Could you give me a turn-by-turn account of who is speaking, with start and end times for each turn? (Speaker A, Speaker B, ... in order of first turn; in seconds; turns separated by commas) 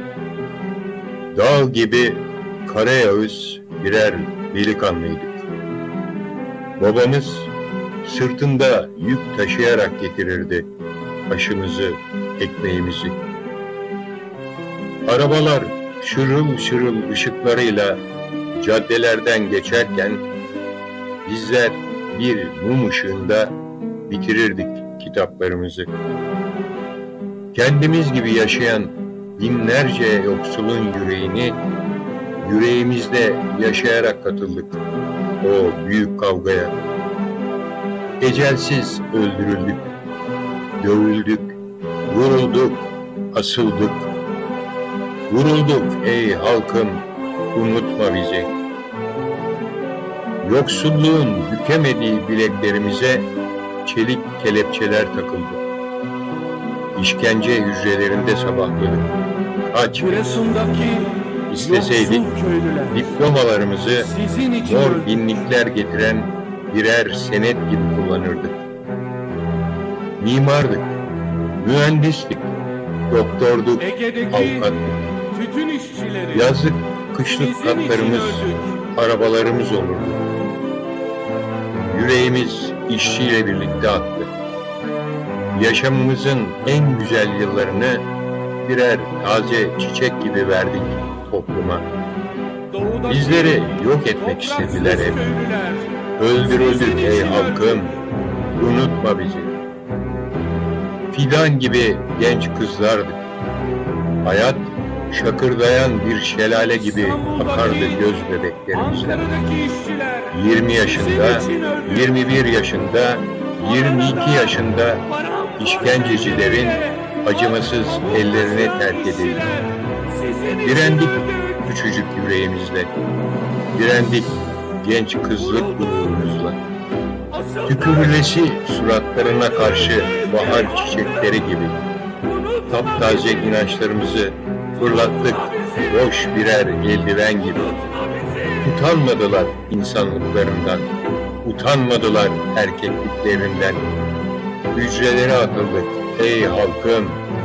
Speaker A: 1.3-5.5, Speaker A: 6.8-7.5, Speaker A: 8.0-10.7, Speaker A: 11.3-13.2, Speaker A: 15.1-18.0, Speaker A: 18.6-20.2, Speaker A: 21.2-25.9, Speaker A: 27.5-31.6, Speaker A: 32.4-34.8, Speaker A: 35.4-36.8, Speaker A: 38.2-39.9, Speaker A: 40.8-41.5, Speaker A: 42.1-44.1, Speaker A: 45.3-48.5, Speaker A: 50.4-53.3, Speaker A: 53.8-55.6, Speaker A: 56.9-59.1, Speaker A: 59.7-60.6, Speaker B: 60.2-62.9, Speaker A: 61.5-68.7, Speaker B: 64.1-64.9, Speaker A: 70.2-71.0, Speaker A: 71.5-72.5, Speaker A: 73.1-75.0, Speaker B: 73.9-74.6, Speaker B: 75.3-76.4, Speaker A: 76.3-80.2, Speaker B: 77.4-78.7, Speaker A: 81.8-84.3, Speaker A: 85.5-88.1, Speaker A: 88.6-91.9, Speaker B: 92.7-93.7, Speaker A: 93.0-95.3, Speaker B: 94.4-95.9, Speaker A: 96.2-98.0, Speaker B: 96.7-97.7, Speaker A: 98.5-99.5, Speaker A: 101.1-103.3, Speaker A: 104.2-109.3, Speaker B: 107.0-107.9, Speaker B: 109.0-110.3, Speaker A: 110.3-119.5, Speaker B: 110.9-111.9, Speaker B: 116.2-116.4, Speaker B: 118.2-121.3, Speaker A: 120.5-122.9, Speaker A: 123.7-126.6, Speaker A: 127.6-131.8, Speaker A: 132.6-137.7, Speaker A: 138.6-143.8, Speaker A: 144.7-147.2